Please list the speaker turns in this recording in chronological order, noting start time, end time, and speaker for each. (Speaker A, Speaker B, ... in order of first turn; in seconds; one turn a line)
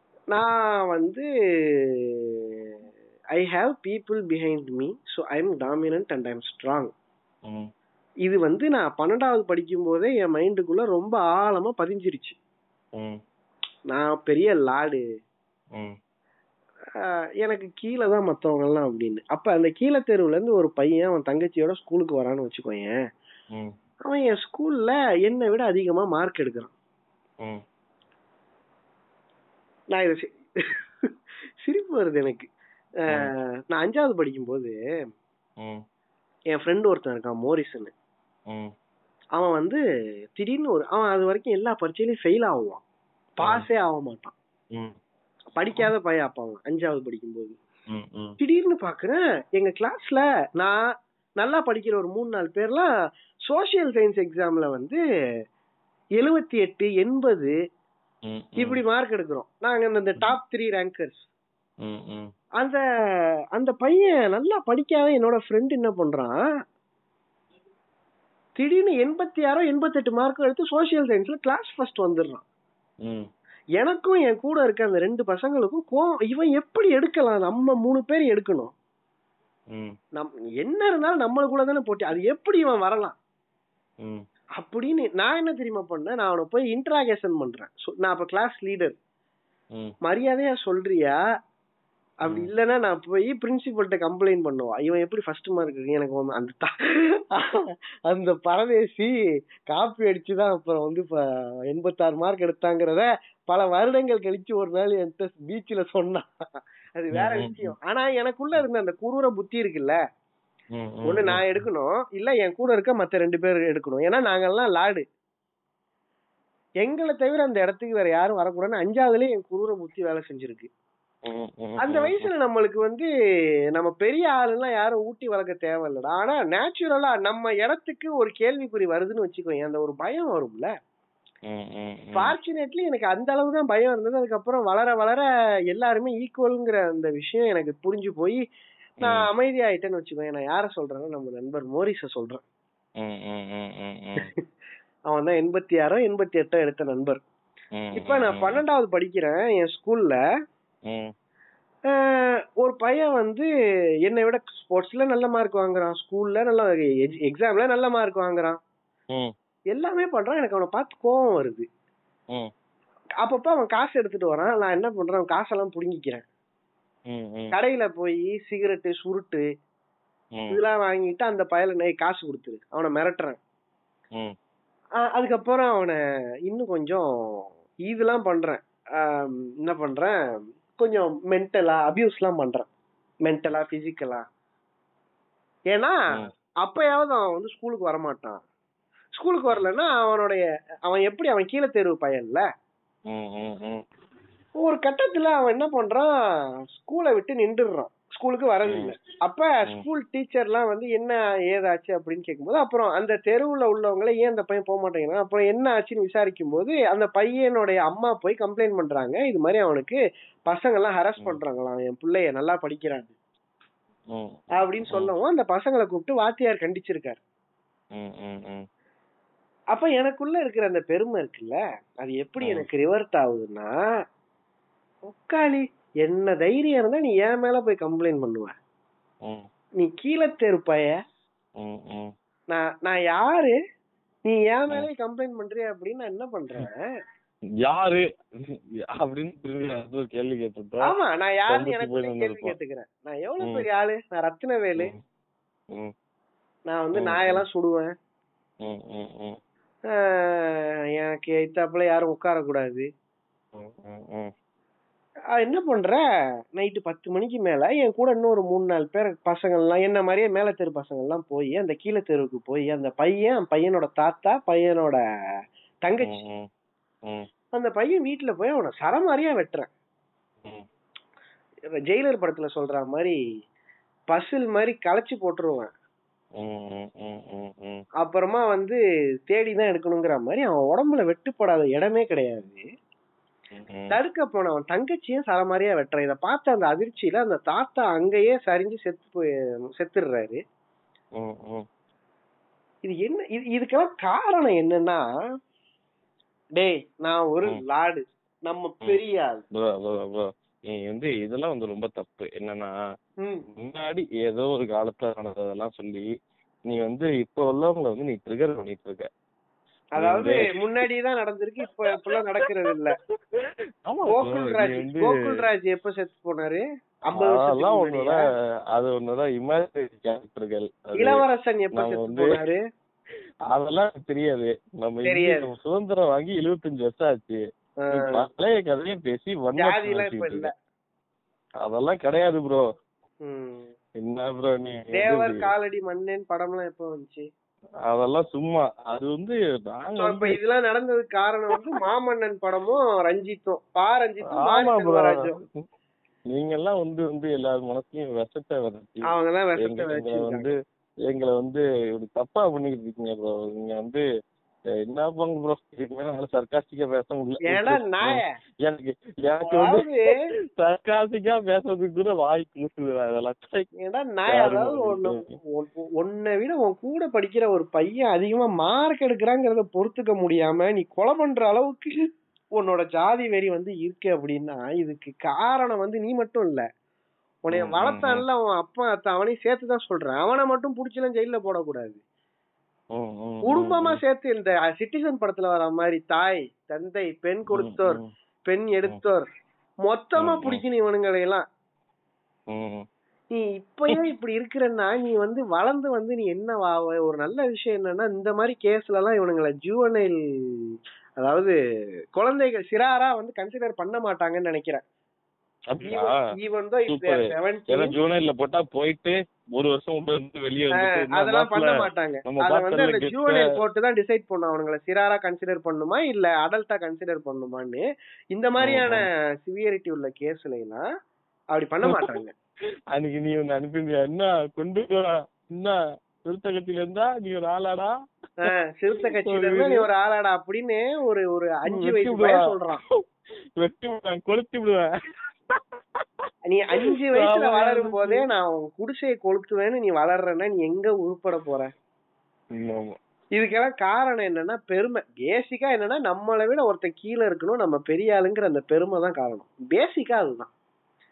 Speaker A: 0.3-2.2
Speaker A: 3.4-6.9
Speaker B: 7.5-7.7
Speaker A: 8.3-12.4
Speaker B: 13.0-13.2
Speaker A: 13.9-15.0
Speaker A: 17.0-22.9
Speaker A: 24.1-26.7
Speaker A: 29.9-30.3
Speaker A: 31.6-32.5
Speaker A: 33.1-34.7
Speaker A: 36.5-37.9
Speaker A: 39.4-39.8
Speaker A: 40.4-42.8
Speaker A: 43.4-44.3
Speaker A: 45.6-47.6
Speaker B: 47.9-48.4
Speaker A: 48.4-50.9
Speaker A: 51.4-52.9
Speaker A: 53.5-55.0
Speaker A: 56.2-57.5
Speaker B: 58.3-58.8
Speaker A: 58.6-61.3
Speaker B: 61.8-62.3
Speaker A: 63.5-66.4
Speaker A: 68.6-72.4
Speaker A: 73.8-78.7
Speaker B: 79.7-80.0
Speaker A: 80.2-83.2
Speaker A: 84.6-89.0
Speaker A: 90.0-91.2
Speaker A: 92.2-99.1
Speaker A: 99.7-106.3
Speaker A: 107.0-110.0
Speaker B: 107.1-107.7
Speaker B: 110.7-111.6
Speaker A: 111.1-115.1
Speaker A: 116.8-120.7
Speaker B: 121.2-122.3
Speaker A: 121.8-123.1
Speaker A: 123.8-130.7
Speaker B: 131.5-132.3
Speaker A: 132.2-138.4
Speaker A: 139.0-142.4
Speaker B: 139.0-139.3
Speaker B: 143.0-144.3
Speaker A: 145.1-147.2
Speaker B: 147.8-148.6
Speaker A: 148.0-150.2
Speaker B: 150.9-151.1
Speaker A: 151.9-153.5
Speaker A: 154.1-158.6
Speaker A: 159.7-161.7
Speaker A: 163.2-166.2
Speaker B: 167.1-167.5
Speaker A: 167.5-169.4
Speaker B: 170.3-170.6
Speaker A: 170.5-173.4
Speaker A: 175.0-180.2
Speaker A: 180.8-182.7
Speaker A: 183.2-184.3
Speaker A: 185.7-186.1
Speaker A: 186.6-188.4
Speaker A: 189.2-192.4
Speaker B: 193.1-193.8
Speaker A: 194.6-196.1
Speaker A: 196.8-213.1
Speaker B: 198.7-199.0
Speaker B: 214.1-215.1
Speaker A: 214.6-217.2
Speaker B: 217.9-218.7
Speaker A: 219.7-223.7
Speaker B: 222.4-222.7
Speaker A: 225.1-228.6
Speaker A: 229.8-231.0
Speaker B: 231.6-232.1
Speaker A: 232.5-233.6
Speaker A: 234.3-236.9
Speaker B: 237.6-240.9
Speaker A: 240.8-244.9
Speaker B: 241.5-242.6
Speaker A: 246.7-247.9
Speaker B: 246.9-247.4
Speaker B: 248.6-249.4
Speaker A: 250.0-252.9
Speaker B: 253.6-254.3
Speaker A: 255.4-256.0
Speaker A: 256.6-265.0
Speaker A: 265.9-266.2
Speaker B: 266.0-266.5
Speaker A: 267.5-269.7
Speaker A: 271.9-273.2
Speaker A: 274.1-275.7
Speaker B: 276.4-277.8
Speaker A: 278.0-278.8
Speaker A: 279.3-282.6
Speaker B: 283.5-284.0
Speaker A: 283.9-290.4
Speaker B: 291.2-291.7
Speaker A: 292.9-295.0
Speaker A: 296.6-299.4
Speaker B: 299.5-302.8
Speaker B: 303.5-306.1
Speaker B: 306.7-309.1
Speaker A: 310.0-313.0
Speaker B: 310.0-310.5
Speaker B: 312.1-312.8
Speaker B: 313.3-315.4
Speaker A: 314.1-318.2
Speaker B: 317.1-318.2
Speaker B: 318.7-322.4
Speaker A: 321.0-322.6
Speaker B: 323.5-330.5
Speaker A: 325.1-325.5
Speaker A: 327.8-328.3
Speaker A: 329.6-330.5
Speaker B: 331.6-332.7
Speaker A: 333.2-333.7
Speaker B: 334.0-335.5
Speaker A: 334.9-337.3
Speaker B: 337.9-340.4
Speaker A: 340.0-345.4
Speaker B: 344.3-345.6
Speaker B: 346.3-349.1
Speaker A: 349.1-350.5
Speaker B: 349.6-350.6
Speaker B: 351.1-354.0
Speaker B: 354.8-359.9
Speaker A: 357.5-358.2
Speaker A: 359.4-360.2
Speaker B: 360.6-363.7
Speaker A: 363.8-371.9
Speaker B: 364.3-365.4
Speaker A: 372.6-376.6
Speaker A: 377.5-382.0
Speaker B: 377.5-378.2
Speaker B: 382.9-384.0
Speaker A: 383.5-389.3
Speaker B: 387.5-388.1
Speaker A: 389.9-391.4
Speaker B: 390.2-390.6
Speaker B: 392.5-392.9
Speaker A: 393.3-401.5
Speaker A: 402.2-404.8
Speaker B: 405.7-406.2
Speaker A: 405.9-408.0
Speaker B: 406.9-413.5
Speaker A: 410.8-420.9
Speaker B: 418.6-419.1
Speaker A: 421.5-422.3
Speaker B: 421.9-422.2
Speaker B: 422.9-427.9
Speaker A: 428.4-432.8
Speaker B: 429.0-429.9
Speaker B: 431.7-432.9
Speaker B: 433.6-434.9
Speaker B: 435.5-436.1
Speaker A: 436.5-441.7
Speaker B: 436.8-438.3
Speaker B: 442.5-443.0
Speaker A: 443.4-450.5